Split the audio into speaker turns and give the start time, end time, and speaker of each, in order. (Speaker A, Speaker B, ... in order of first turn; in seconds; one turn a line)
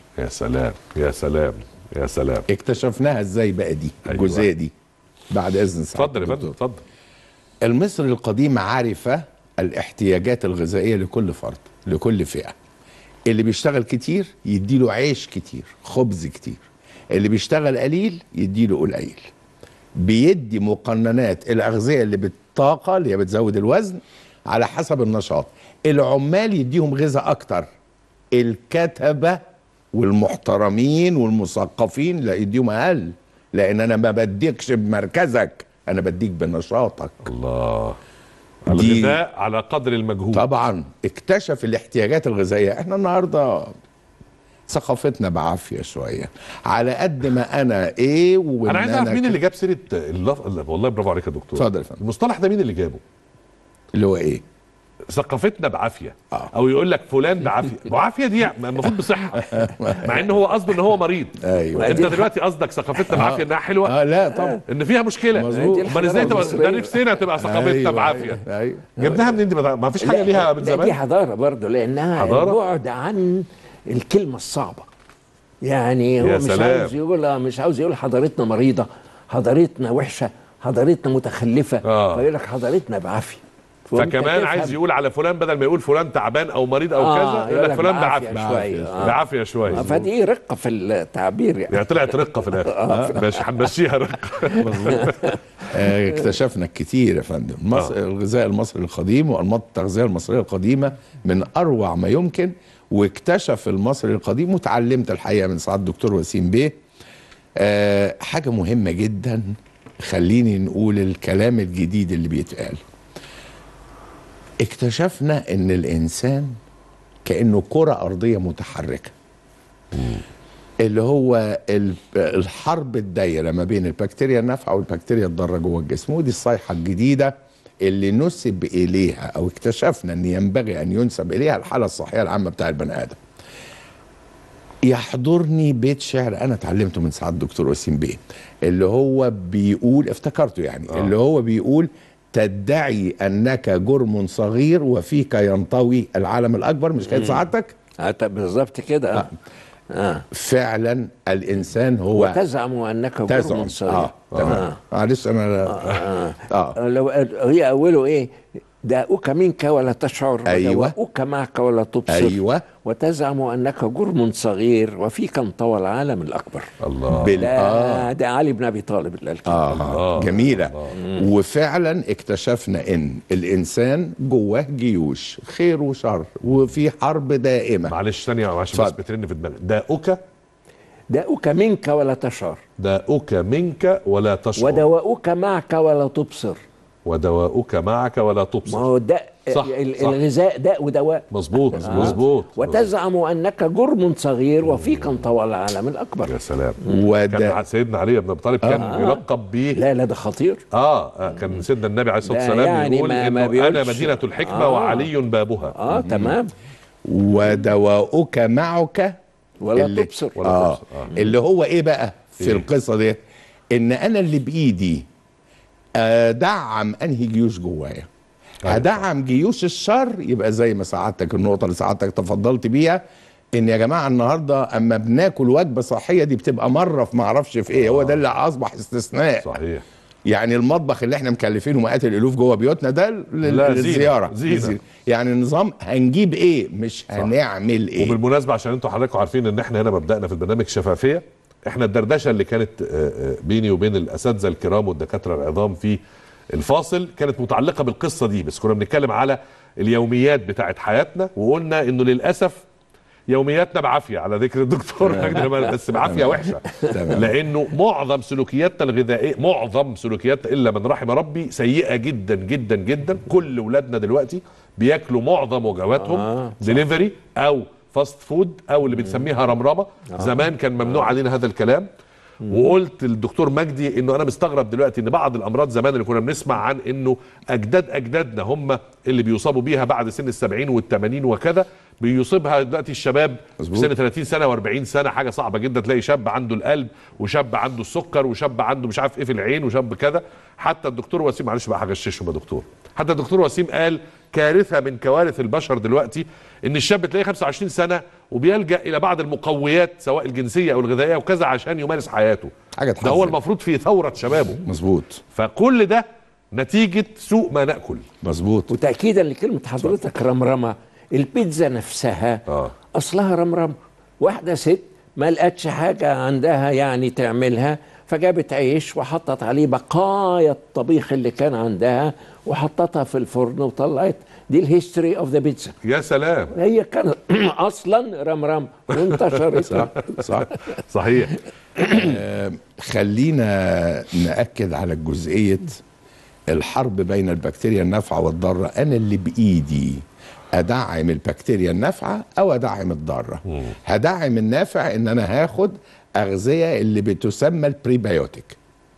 Speaker A: 0.2-2.5
Speaker B: 2.5-4.7
Speaker A: 4.0-4.5
Speaker B: 5.3-6.5
Speaker A: 5.9-6.8
Speaker B: 7.6-12.5
Speaker B: 13.3-19.3
Speaker B: 19.9-27.7
Speaker B: 28.3-29.4
Speaker B: 29.9-37.3
Speaker A: 37.2-38.0
Speaker A: 38.6-40.5
Speaker B: 38.7-39.2
Speaker B: 40.3-43.7
Speaker B: 44.7-49.4
Speaker A: 48.7-53.0
Speaker B: 51.5-52.0
Speaker B: 53.9-54.4
Speaker A: 55.1-64.0
Speaker B: 59.3-60.3
Speaker B: 61.4-62.1
Speaker C: 61.7-62.3
Speaker B: 63.0-64.6
Speaker A: 64.6-68.4
Speaker B: 65.3-66.5
Speaker C: 65.5-67.0
Speaker B: 67.4-69.2
Speaker A: 69.0-71.0
Speaker C: 70.0-74.9
Speaker A: 72.2-72.6
Speaker C: 75.6-84.7
Speaker A: 76.2-76.9
Speaker A: 81.8-82.2
Speaker A: 84.0-89.8
Speaker C: 87.0-89.2
Speaker B: 88.3-90.1
Speaker C: 89.7-93.7
Speaker A: 91.7-95.3
Speaker B: 92.9-93.1
Speaker C: 94.5-95.4
Speaker B: 94.6-95.1
Speaker B: 95.7-106.8
Speaker B: 107.6-112.8
Speaker B: 114.6-116.5
Speaker B: 117.2-119.1
Speaker A: 119.9-120.2
Speaker B: 120.8-133.2
Speaker B: 134.8-147.7
Speaker C: 147.1-147.4
Speaker C: 148.0-149.3
Speaker C: 149.9-150.2
Speaker B: 150.3-152.4
Speaker C: 152.1-154.8
Speaker B: 153.3-156.8
Speaker A: 154.3-154.6
Speaker C: 155.7-158.3
Speaker C: 158.8-166.7
Speaker B: 160.4-160.9
Speaker B: 162.1-162.6
Speaker A: 166.8-167.4
Speaker B: 167.1-168.1
Speaker C: 167.2-169.7
Speaker B: 169.5-178.0
Speaker A: 169.7-170.9
Speaker A: 177.9-180.2
Speaker C: 181.1-182.6
Speaker A: 182.8-184.8
Speaker C: 184.6-186.6
Speaker A: 187.0-188.9
Speaker C: 188.7-197.0
Speaker A: 189.5-190.2
Speaker A: 191.3-192.9
Speaker A: 194.7-195.2
Speaker A: 196.3-199.8
Speaker B: 196.9-197.6
Speaker B: 198.6-198.9
Speaker C: 198.8-200.6
Speaker A: 200.7-205.8
Speaker C: 201.3-201.6
Speaker C: 202.2-205.1
Speaker C: 205.8-206.5
Speaker B: 205.9-206.4
Speaker B: 207.0-209.2
Speaker C: 209.6-210.4
Speaker B: 209.8-213.2
Speaker A: 210.4-211.1
Speaker A: 212.4-212.7
Speaker B: 213.7-215.1
Speaker B: 215.9-218.1
Speaker A: 218.6-219.0
Speaker B: 218.7-223.0
Speaker B: 223.5-229.6
Speaker A: 227.7-228.2
Speaker A: 229.4-229.8
Speaker B: 230.3-238.2
Speaker A: 233.4-234.8
Speaker A: 238.0-246.0
Speaker A: 246.5-252.6
Speaker A: 253.3-271.9
Speaker B: 255.1-255.4
Speaker B: 256.0-257.4
Speaker C: 266.0-266.8
Speaker C: 270.1-270.4
Speaker C: 272.4-272.7
Speaker A: 272.5-304.6
Speaker B: 283.6-283.9
Speaker B: 302.7-303.4
Speaker B: 304.6-305.2
Speaker A: 305.3-308.0
Speaker B: 308.2-308.7
Speaker C: 308.7-312.4
Speaker A: 312.5-312.7
Speaker C: 312.9-325.8
Speaker A: 325.8-326.5
Speaker C: 326.5-330.1
Speaker A: 329.1-331.4
Speaker B: 329.7-330.5
Speaker B: 331.8-335.8
Speaker B: 336.5-348.6